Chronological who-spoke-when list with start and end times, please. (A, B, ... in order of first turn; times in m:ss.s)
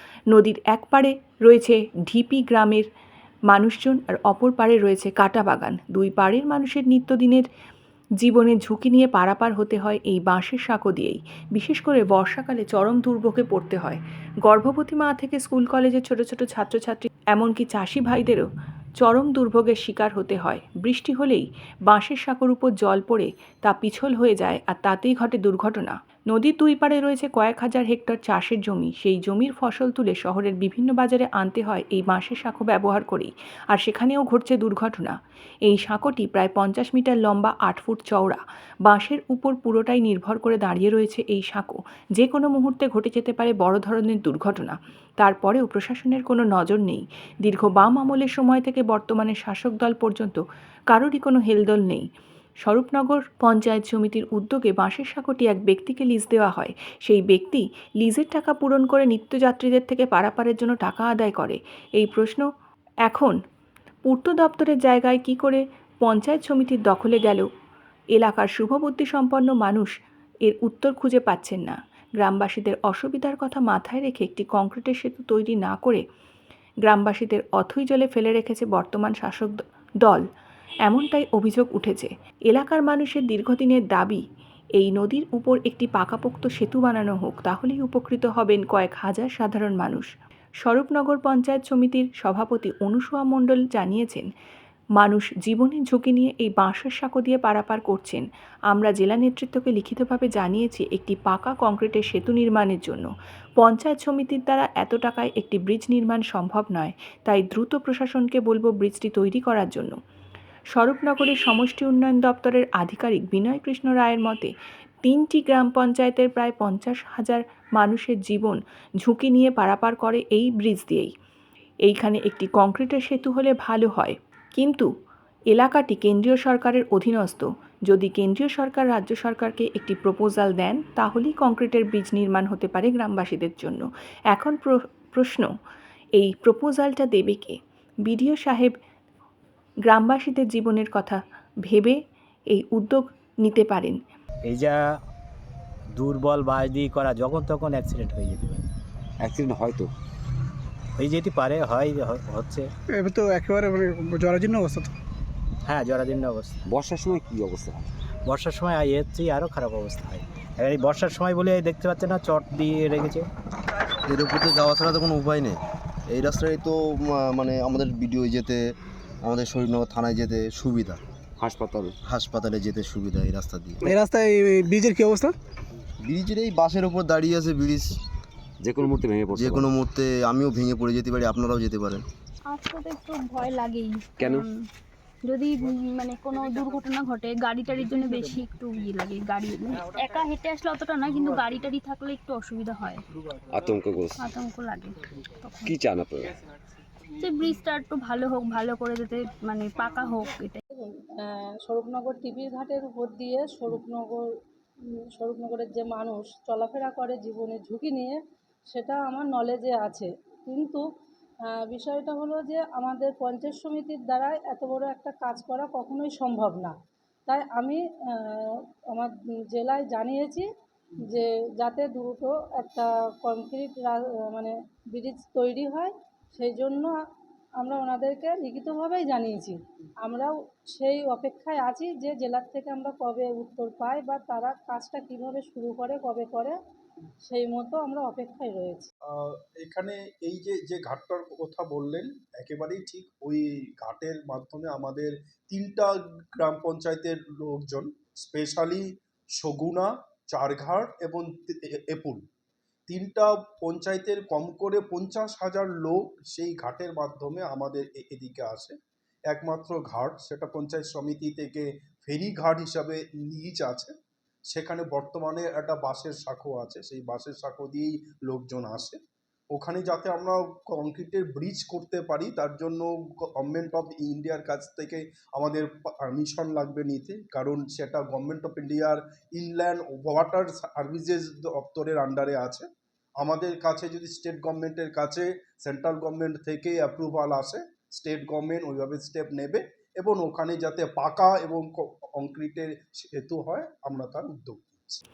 0:00.3-0:02.9 A
0:03.5-0:07.5 A
0:08.2-0:18.5 A
0:19.0-0:50.4 A
0:50.9-0:52.1 A
0:52.6-1:02.5 A
1:03.1-1:03.4 A
1:04.0-1:07.5 A
1:08.2-1:09.9 A
1:10.5-1:16.0 A
1:16.8-1:20.2 A
1:20.9-1:24.2 A
1:24.8-1:30.1 A
1:30.6-1:34.3 A
1:35.0-1:50.0 A
1:50.8-1:54.5 A
1:55.0-2:01.1 A
2:01.8-2:04.9 A
2:05.5-2:15.5 A
2:16.2-2:18.7 A
2:19.8-2:22.0 A
2:22.5-2:24.0 A
2:24.4-2:25.0 B
2:26.0-2:28.6 B
2:29.2-2:29.9 C
2:31.0-2:32.7 B
2:32.9-2:34.9 D
2:35.7-2:36.6 B
2:36.6-2:37.8 C
2:38.3-2:43.3 B
2:44.1-2:51.0 E
2:51.4-2:51.9 C
2:52.0-2:53.9 E
2:53.8-2:55.4 D
2:56.0-2:58.0 E
2:58.6-2:59.7 C
2:59.3-3:02.0 E
3:02.5-3:04.6 F
3:04.2-3:04.5 C
3:05.2-3:13.0 F
3:13.5-3:14.2 C
3:14.2-3:15.7 F
3:15.6-3:16.3 C
3:17.2-3:20.6 F
3:20.7-3:24.3 G
3:25.2-3:28.2 G
3:28.7-3:30.8 G
3:31.5-3:36.7 G
3:37.3-3:40.5 G
3:41.0-3:46.9 G
3:47.6-3:56.6 G
3:57.3-3:58.9 G
3:59.1-4:12.2 H
4:12.9-4:18.8 H
4:19.3-4:23.9 H
4:24.5-4:29.0 H
4:29.5-4:42.6 H
4:43.2-4:55.0 H